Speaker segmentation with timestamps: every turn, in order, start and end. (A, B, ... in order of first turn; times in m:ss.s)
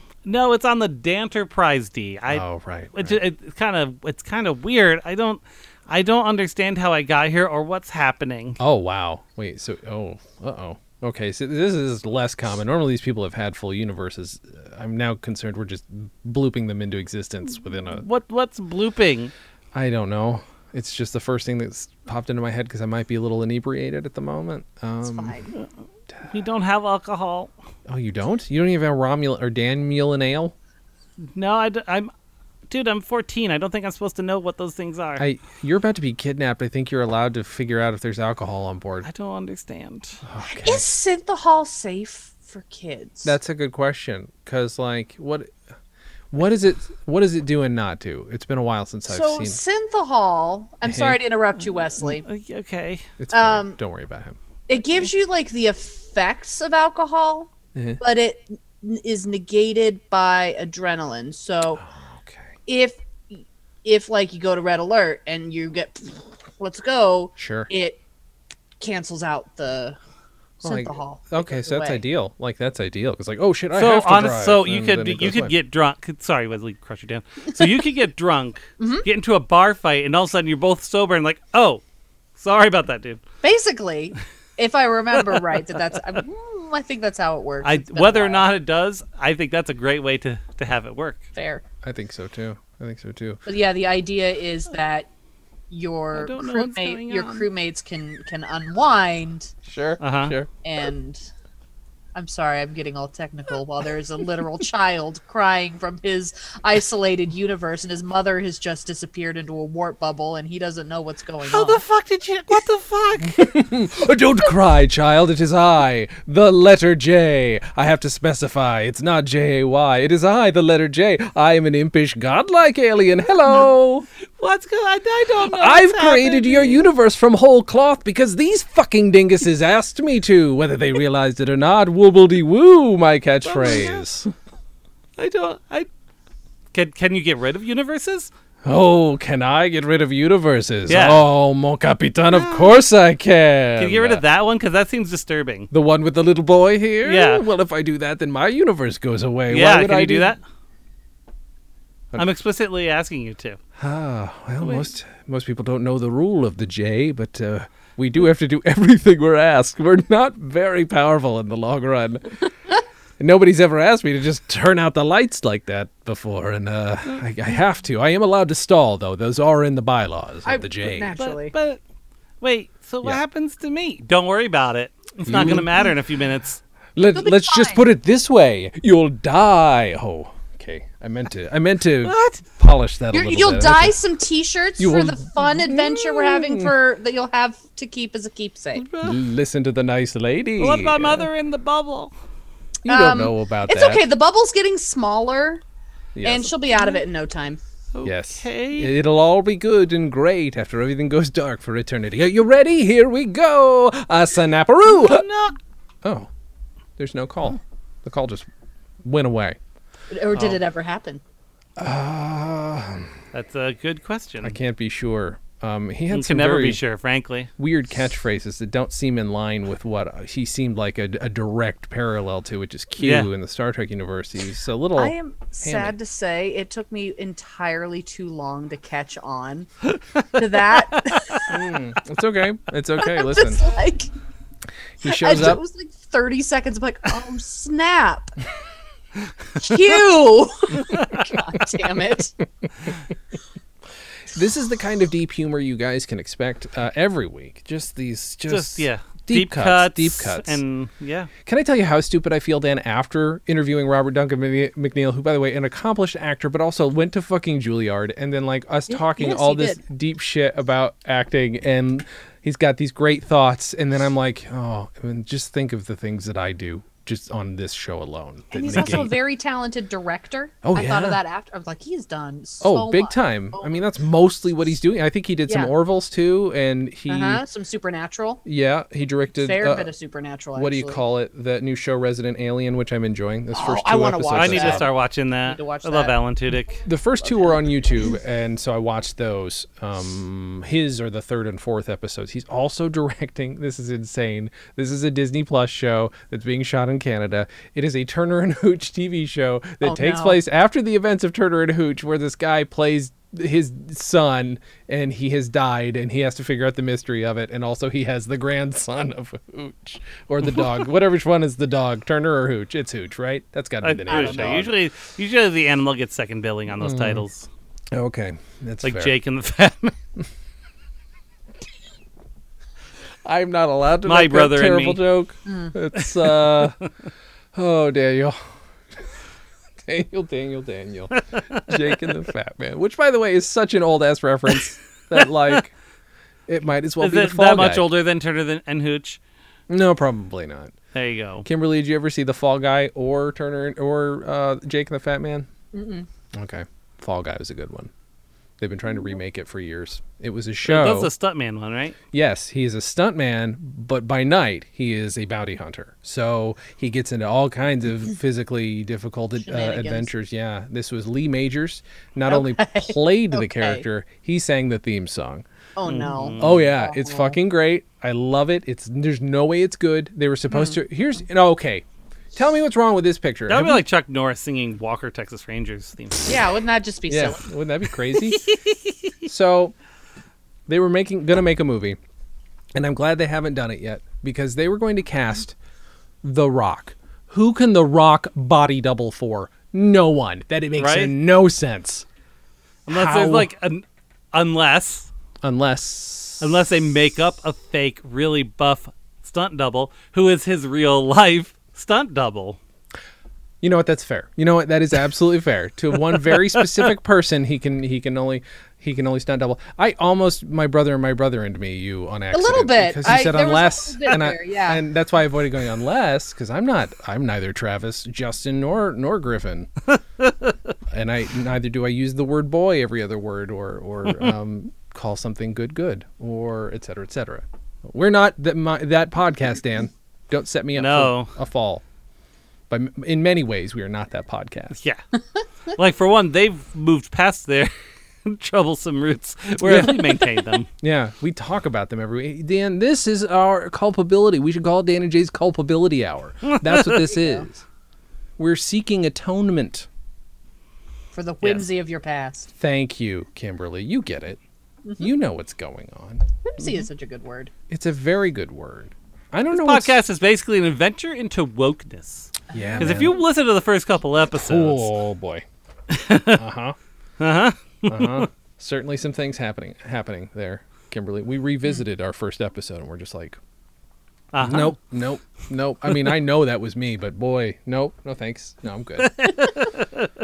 0:00.2-0:08.6 A
0:02.3-0:03.2 B
0:08.6-0:18.0 B
0:17.8-0:19.3 A
0:19.7-0:25.4 B
0:25.0-0:25.5 C
0:26.3-0:27.5 A
0:27.9-0:30.5 B
0:31.3-0:32.1 A
0:32.7-0:35.2 A
0:35.2-0:39.1 B
0:39.0-0:40.2 A
0:40.3-0:40.9 B
0:40.4-0:43.4 C
0:43.2-0:45.5 B
0:46.3-0:49.6 B
0:49.1-0:52.3 C
0:50.8-0:51.2 B
0:52.0-0:53.1 A
0:53.2-0:54.4 B
0:53.3-0:53.8 C
0:54.7-1:01.8 C
0:57.8-0:58.0 B
1:01.8-1:02.5 B
1:02.7-1:08.0 C
1:07.4-1:07.7 B
1:08.8-1:10.0 C
1:10.6-1:12.0 C
1:10.6-1:15.6 B
1:13.7-1:21.8 A
1:18.8-1:19.1 C
1:22.4-1:23.2 A
1:23.4-1:28.5 C
1:27.6-1:31.2 A
1:31.4-1:31.6 C
1:31.8-1:33.4 B
1:33.5-1:35.1 C
1:35.7-1:39.5 C
1:36.1-1:37.5 A
1:39.6-1:40.5 B
1:40.0-1:40.4 A
1:40.6-1:41.3 C
1:42.1-1:51.8 C
1:51.4-1:53.4 A
1:53.2-2:04.1 B
2:04.4-2:06.8 A
2:05.4-2:14.3 B
2:13.4-2:14.0 A
2:15.2-2:15.9 A
2:16.7-2:18.3 A
2:18.6-2:24.2 B
2:20.9-2:21.3 A
2:22.3-2:22.8 A
2:23.8-2:25.7 A
2:25.7-2:30.4 B
2:27.0-2:27.4 A
2:29.5-2:30.4 A
2:32.2-2:33.6 A
2:33.8-2:42.4 B
2:43.2-2:51.2 B
2:50.4-2:51.5 C
2:51.2-2:51.8 A
2:52.4-2:56.6 A
2:55.2-2:55.7 B
2:57.0-3:04.0 B
2:57.1-2:57.8 C
3:02.0-3:02.4 A
3:03.1-3:08.8 C
3:04.8-3:06.8 B
3:08.8-3:09.2 A
3:09.0-3:11.3 B
3:10.6-3:12.1 A
3:12.8-3:14.0 B
3:12.9-3:15.6 C
3:16.2-3:16.5 B
3:16.2-3:17.6 C
3:17.9-3:18.9 A
3:18.0-3:25.3 B
3:24.9-3:25.6 A
3:26.0-3:26.3 B
3:27.0-3:28.5 B
3:29.0-3:29.6 B
3:30.1-3:31.2 C
3:31.8-3:33.1 B
3:33.3-3:34.6 A
3:34.4-3:36.8 B
3:36.1-3:37.5 A
3:37.6-3:45.9 B
3:43.0-3:43.3 A
3:45.0-3:49.7 C
3:50.0-3:51.4 A
3:50.3-3:51.6 C
3:51.5-3:53.7 B
3:53.0-3:54.1 C
3:55.0-3:55.6 B
3:55.0-3:58.4 C
3:59.6-4:02.4 C
4:00.9-4:01.2 A
4:04.3-4:10.6 B
4:08.5-4:11.3 A
4:11.4-4:29.2 B
4:18.9-4:19.8 C
4:28.5-4:33.8 C
4:30.6-4:31.2 B
4:32.6-4:37.4 B
4:35.5-4:35.7 C
4:37.1-4:38.4 C
4:38.4-4:39.9 B
4:39.4-4:41.0 C
4:40.6-4:44.9 B
4:43.5-4:44.9 C
4:44.3-4:46.8 A
4:45.4-4:46.2 C
4:46.8-5:14.7 B
4:47.2-4:47.6 C
4:59.8-5:00.4 C
5:13.8-5:17.5 A
5:14.1-5:14.6 C
5:16.8-5:17.2 B
5:17.9-5:19.2 B
5:18.8-5:20.0 A
5:23.2-5:26.8 B
5:24.1-5:25.0 A
5:25.4-5:25.8 C
5:26.4-5:26.7 A
5:27.5-5:29.2 B
5:29.8-5:35.7 B
5:31.2-5:32.0 A
5:35.2-5:35.6 A
5:36.5-5:37.9 B
5:37.0-5:39.2 A
5:39.7-5:40.8 B
5:40.9-5:41.5 A
5:41.4-5:45.5 B
5:45.7-5:46.1 C
5:46.3-5:47.9 B
5:48.6-5:51.1 B
5:50.6-5:52.0 A
5:52.1-6:05.4 B
5:59.4-6:00.1 C
6:02.3-6:03.8 C
6:05.8-6:07.4 C
6:05.9-6:06.7 A
6:06.4-6:13.8 B
6:10.5-6:10.8 C
6:13.5-6:16.4 A
6:16.3-6:17.5 C
6:17.1-6:18.5 B
6:19.2-6:19.7 B
6:20.7-6:22.0 B
6:22.8-6:25.6 B
6:26.2-6:32.1 B
6:30.8-6:31.1 A
6:32.9-6:33.5 B
6:32.9-6:35.1 A
6:35.4-6:36.5 B
6:36.4-6:42.6 A
6:43.6-6:59.7 B
6:46.3-6:46.7 A
6:52.3-6:54.8 C
7:00.2-7:00.5 A
7:00.9-7:11.8 B
7:10.8-7:11.3 A
7:12.7-7:14.8 B
7:15.8-7:17.7 A
7:18.2-7:20.7 A
7:19.6-7:20.1 B
7:20.8-7:27.6 B
7:26.5-7:26.8 A
7:27.2-7:27.4 C
7:28.4-7:29.9 B
7:31.1-7:32.5 C
7:32.6-7:34.4 B
7:35.0-7:36.2 B
7:36.4-7:37.5 C
7:37.7-7:40.0 B
7:39.5-7:44.9 A
7:42.5-7:43.1 C
7:42.5-7:43.2 B
7:44.4-7:45.4 B
7:45.9-7:46.4 A
7:46.3-7:46.8 B
7:47.2-7:48.3 A
7:47.9-7:53.4 B
7:54.3-7:54.8 A
7:54.4-7:59.4 B
7:59.0-8:00.1 A